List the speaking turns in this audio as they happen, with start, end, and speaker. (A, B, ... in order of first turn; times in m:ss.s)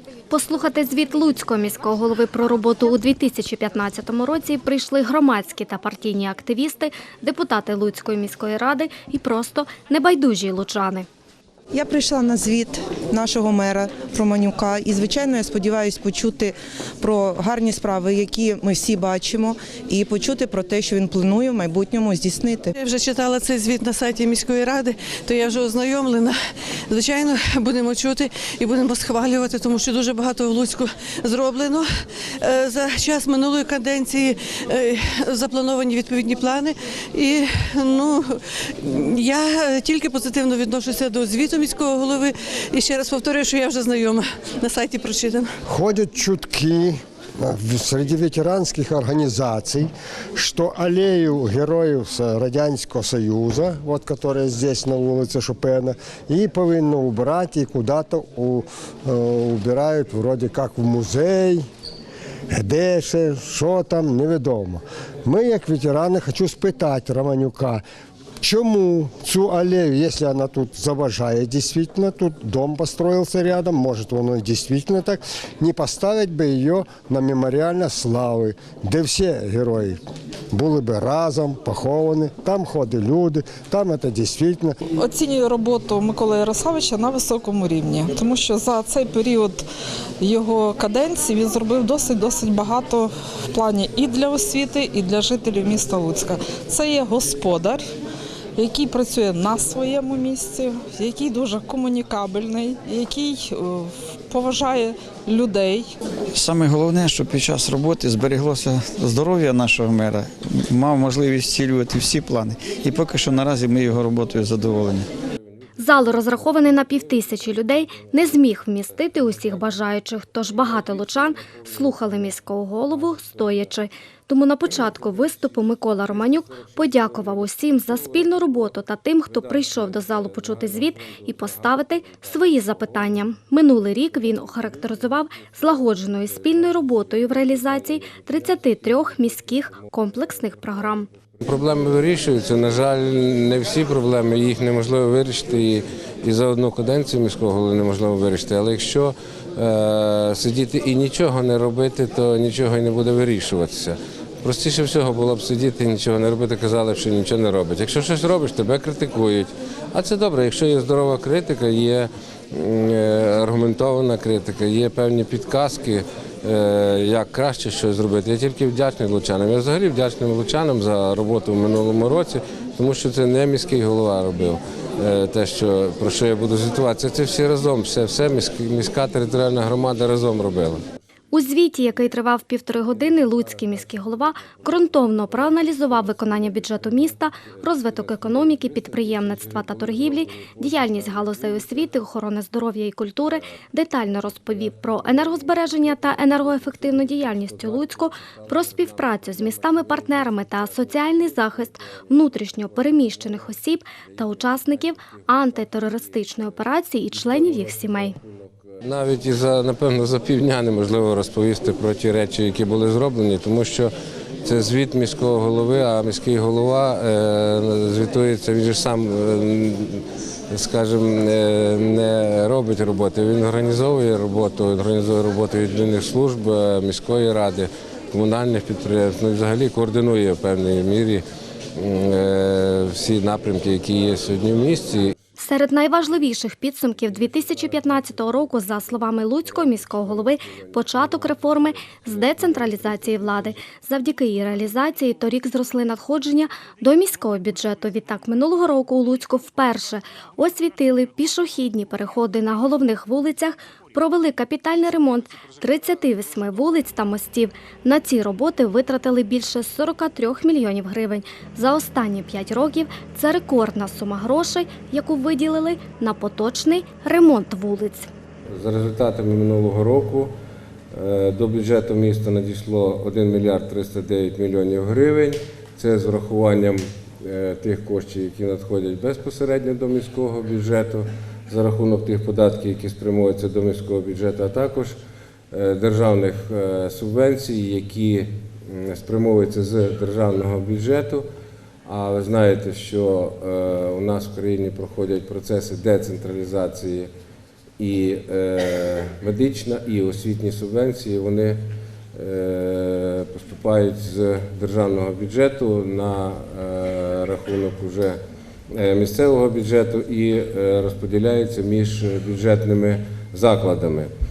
0:00.3-0:11.0 A
0:11.7-0:22.7 B
0:22.7-0:26.4 C
0:26.9-0:31.9 C
0:32.4-0:45.5 C
0:45.6-1:01.7 D
1:02.5-1:07.8 D
1:08.4-1:20.0 D
1:20.5-1:24.8 D
1:25.0-1:29.6 E
1:30.2-1:37.8 E
1:38.6-1:45.9 E
1:46.3-1:55.1 F
1:55.8-2:21.1 A
2:21.4-3:00.8 G
3:01.3-3:28.2 A
3:28.8-3:33.9 G
3:34.4-3:51.2 G
3:51.8-3:55.2 G
3:55.4-4:28.1 A
4:28.5-4:30.3 G
4:30.9-4:45.0 G
4:45.5-4:51.2 G
4:51.8-4:57.1 G
4:57.8-5:01.6 G
5:02.1-5:08.2 G
5:08.7-5:14.1 G